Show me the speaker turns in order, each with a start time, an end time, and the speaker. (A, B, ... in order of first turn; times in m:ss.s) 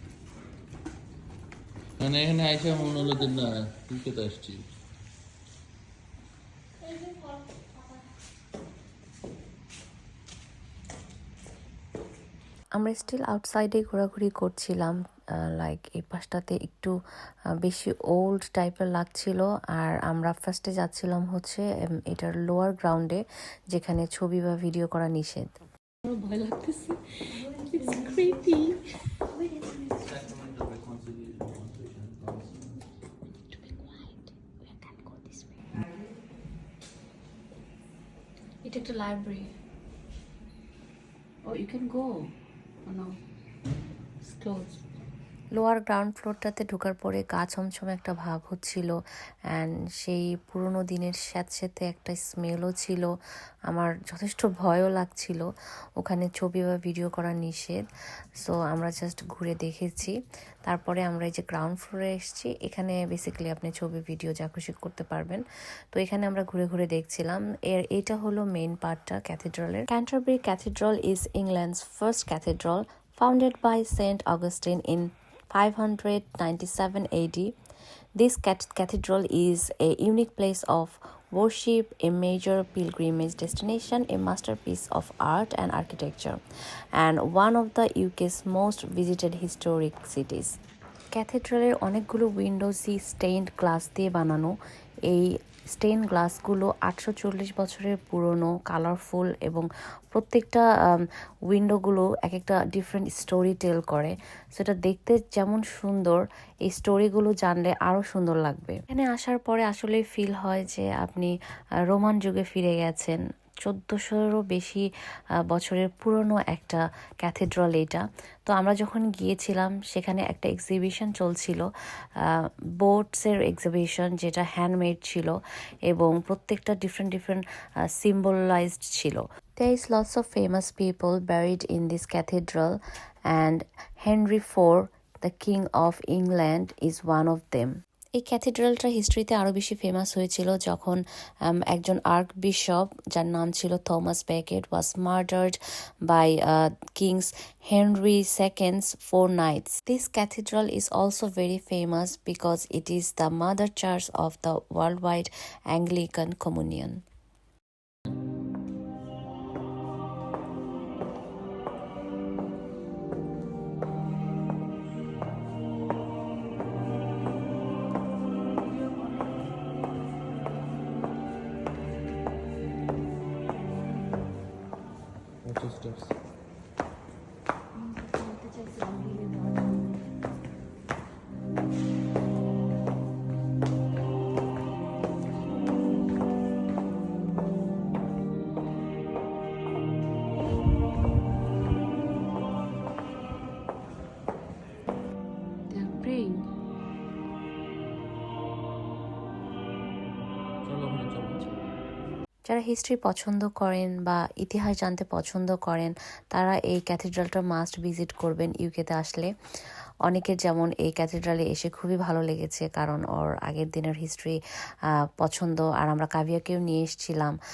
0:02.0-0:04.6 A
0:12.8-0:16.9 B
0:17.6-0:25.5 B
0:26.0-0:28.8 C
0:29.9-0:32.5 A
0:33.5-0:35.6 C
0:38.6-0:39.5 C
0:41.4-0:42.3 C
0:42.8-0:43.2 C
0:44.2-0:44.8 C
0:45.5-0:48.9 B
0:49.5-0:53.1 B
0:53.7-0:57.8 B
0:58.4-1:17.5 B
1:18.2-1:26.4 B
1:27.0-1:30.6 B
1:31.1-1:34.5 B
1:35.1-1:51.3 B
1:51.8-1:54.8 B
1:55.5-2:01.7 B
2:02.2-2:37.0 B
2:55.4-2:56.1 A
2:58.6-2:58.9 C
3:15.7-3:16.4 C
3:20.6-3:21.5 A
3:22.5-3:29.3 B
3:30.0-3:37.4 B